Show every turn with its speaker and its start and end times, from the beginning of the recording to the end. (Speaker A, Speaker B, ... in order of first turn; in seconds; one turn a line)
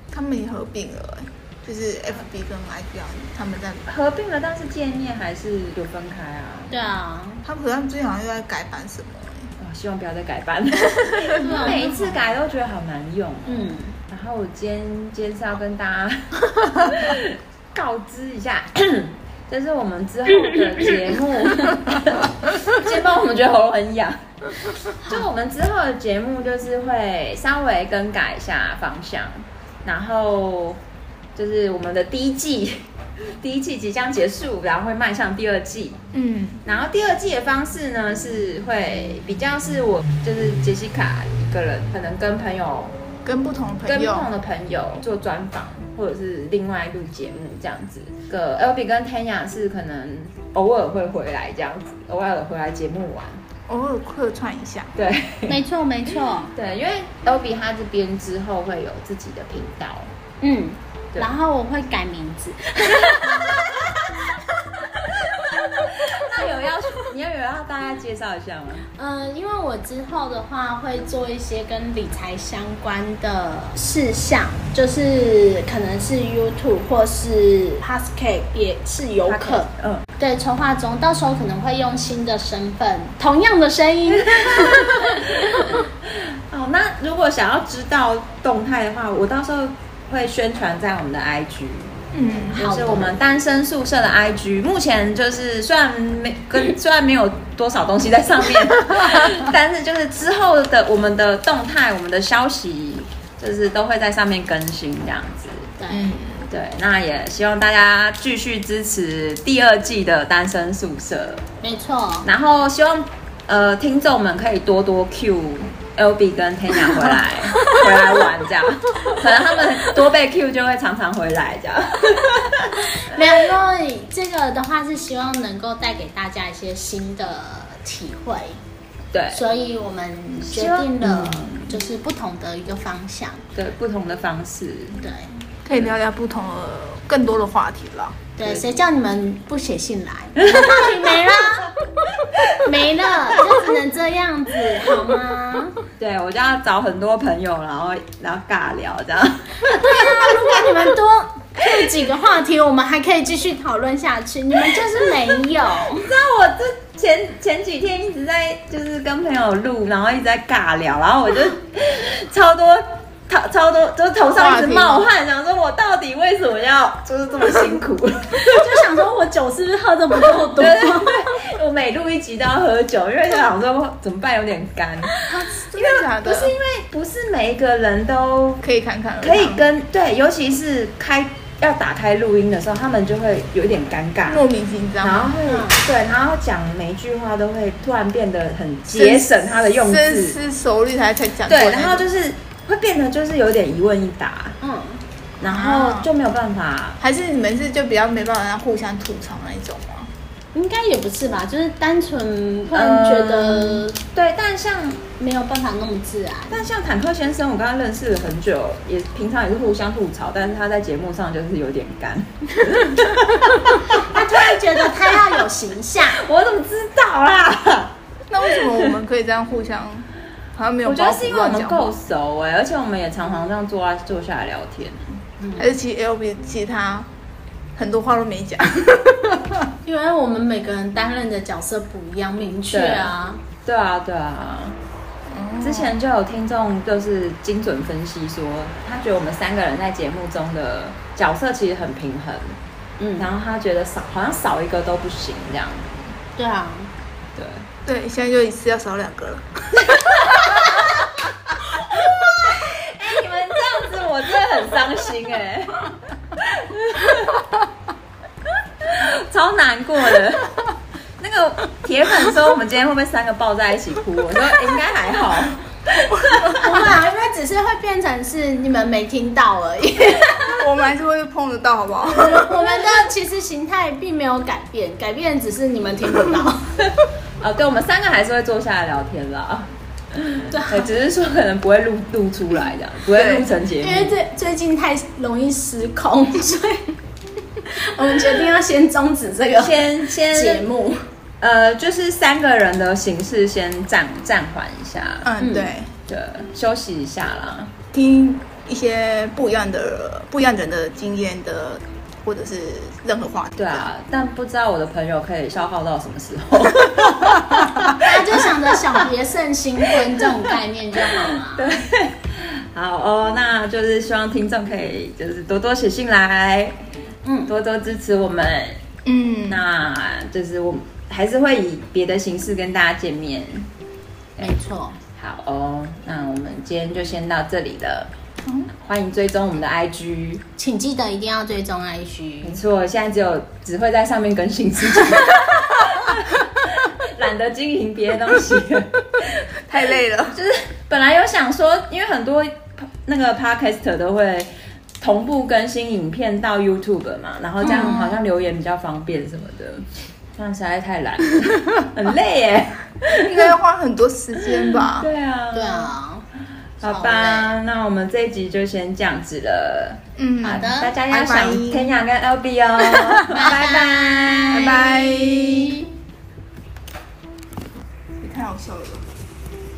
Speaker A: 0.1-3.9
Speaker B: 3.9-6.7
Speaker C: 6.7-7.4
Speaker A: 7.4-9.5
Speaker B: 9.6-24.3
Speaker C: 11.3-12.2
Speaker C: 13.4-14.0
Speaker C: 25.0-25.3
Speaker B: 25.0-30.8
Speaker B: 31.3-36.0
Speaker A: 36.1-36.6
Speaker B: 36.6-42.9
Speaker A: 43.2-44.3
Speaker B: 43.9-53.4
Speaker A: 53.7-54.9
Speaker B: 54.9-55.6
Speaker C: 55.5-56.5
Speaker B: 56.5-60.1
Speaker C: 60.4-64.0
Speaker B: 62.9-64.0
Speaker C: 65.0-66.4
Speaker B: 65.5-68.8
Speaker C: 68.9-85.8
Speaker B: 79.2-80.0
Speaker B: 84.2-91.9
Speaker A: 92.1-92.6
Speaker B: 92.5-105.7
Speaker C: 92.5-93.1
Speaker C: 105.8-106.1
Speaker A: 105.9-106.5
Speaker B: 106.5-111.4
Speaker C: 111.6-112.3
Speaker B: 112.2-123.4
Speaker C: 122.9-128.6
Speaker B: 129.1-129.4
Speaker C: 129.3-133.4
Speaker B: 130.4-131.8
Speaker B: 133.5-135.0
Speaker C: 135.0-135.4
Speaker A: 135.6-138.2
Speaker C: 138.4-141.8
Speaker B: 140.4-140.9
Speaker C: 142.4-145.8
Speaker B: 146.0-150.7
Speaker C: 149.6-156.1
Speaker B: 151.6-151.9
Speaker B: 155.9-168.8
Speaker A: 164.3-165.1
Speaker C: 168.3-171.4
Speaker B: 170.4-175.1
Speaker C: 175.2-175.5
Speaker A: 175.3-176.5
Speaker B: 175.7-178.6
Speaker A: 178.6-179.6
Speaker B: 179.2-184.5
Speaker A: 184.3-185.4
Speaker B: 185.0-190.4
Speaker C: 185.4-185.8
Speaker A: 188.9-192.1
Speaker B: 191.4-194.6
Speaker C: 194.6-195.0
Speaker B: 195.4-197.0
Speaker A: 195.4-196.1
Speaker A: 197.0-200.1
Speaker C: 200.5-204.0
Speaker B: 202.7-205.0
Speaker C: 205.2-206.6
Speaker B: 206.5-215.4
Speaker C: 213.9-216.2
Speaker B: 216.0-219.0
Speaker A: 218.3-221.9
Speaker B: 220.8-225.2
Speaker C: 225.4-225.7
Speaker A: 225.6-227.1
Speaker A: 227.8-229.7
Speaker C: 229.8-233.4
Speaker B: 232.7-234.8
Speaker A: 235.3-235.9
Speaker B: 235.6-242.6
Speaker C: 243.0-243.3
Speaker B: 243.2-246.2
Speaker C: 246.4-246.9
Speaker B: 247.3-247.7
Speaker A: 247.8-250.8
Speaker B: 249.8-251.1
Speaker B: 251.8-257.4
Speaker B: 258.8-260.6
Speaker B: 261.2-265.6
Speaker A: 266.1-266.7
Speaker C: 266.4-270.6
Speaker A: 270.5-272.7
Speaker C: 272.1-276.8
Speaker B: 277.4-284.1
Speaker C: 280.5-280.9
Speaker A: 283.1-283.5
Speaker C: 283.8-286.9
Speaker C: 287.6-291.0
Speaker B: 289.5-290.6
Speaker B: 291.4-295.3
Speaker A: 295.2-295.9
Speaker C: 295.4-295.7
Speaker B: 296.1-297.7
Speaker A: 297.9-303.9
Speaker B: 303.6-309.0
Speaker C: 307.9-311.7
Speaker B: 309.9-310.2
Speaker B: 311.0-316.9
Speaker C: 317.2-317.5
Speaker B: 317.5-318.8
Speaker A: 319.0-319.6
Speaker B: 319.5-323.7
Speaker C: 324.4-325.0
Speaker B: 325.1-328.1
Speaker A: 328.4-328.7
Speaker B: 328.7-330.4
Speaker C: 330.6-332.6
Speaker B: 332.4-339.4
Speaker A: 339.5-340.4
Speaker B: 340.3-353.6
Speaker C: 347.6-348.2
Speaker A: 353.1-355.1
Speaker B: 354.4-355.9
Speaker C: 355.5-356.2
Speaker B: 356.8-364.8
Speaker C: 356.8-357.5
Speaker A: 360.2-361.9
Speaker C: 360.4-360.9
Speaker C: 363.2-365.9
Speaker A: 364.5-365.8
Speaker A: 368.2-369.0